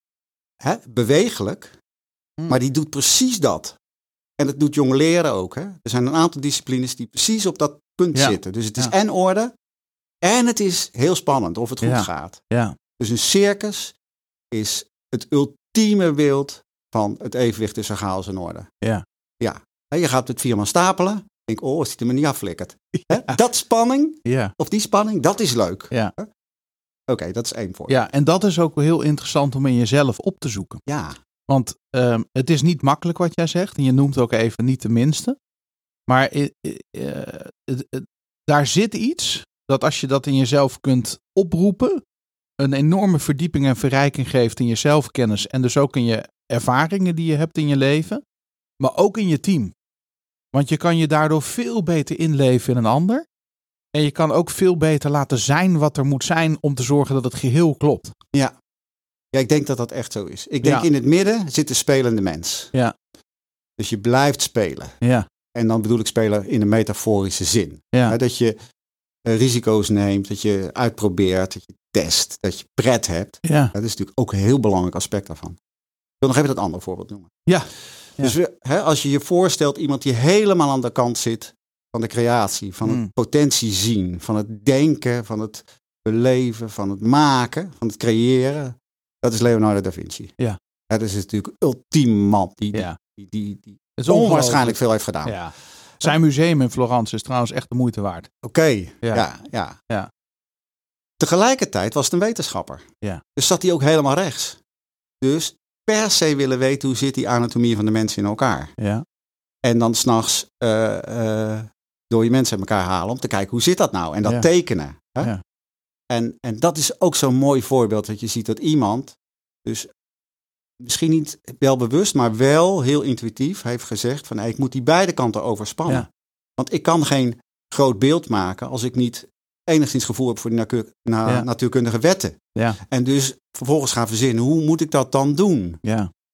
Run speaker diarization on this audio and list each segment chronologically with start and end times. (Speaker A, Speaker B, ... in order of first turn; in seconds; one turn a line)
Speaker A: 0.6-1.7
Speaker A: 2.5-3.8
Speaker A: 4.4-9.5
Speaker B: 8.1-8.9
Speaker A: 10.2-12.4
Speaker B: 11.8-12.8
Speaker A: 13.0-13.9
Speaker A: 14.5-18.7
Speaker A: 19.4-26.3
Speaker B: 23.0-23.4
Speaker B: 24.2-24.5
Speaker A: 27.1-27.9
Speaker B: 27.9-30.8
Speaker A: 30.9-31.2
Speaker B: 31.5-35.4
Speaker B: 36.1-42.0
Speaker B: 42.6-48.2
Speaker B: 48.8-49.7
Speaker B: 50.5-53.2
Speaker B: 53.9-58.1
Speaker A: 59.3-62.7
Speaker A: 63.8-65.0
Speaker B: 65.0-65.3
Speaker A: 65.5-68.5
Speaker A: 69.2-75.6
Speaker B: 73.4-73.7
Speaker A: 76.2-77.3
Speaker B: 77.5-78.3
Speaker A: 78.2-90.3
Speaker A: 90.9-95.4
Speaker B: 94.0-98.3
Speaker A: 98.4-99.8
Speaker A: 101.2-104.6
Speaker A: 105.2-108.7
Speaker B: 108.8-109.0
Speaker A: 109.6-115.3
Speaker A: 116.1-119.9
Speaker A: 120.8-135.8
Speaker B: 135.8-136.1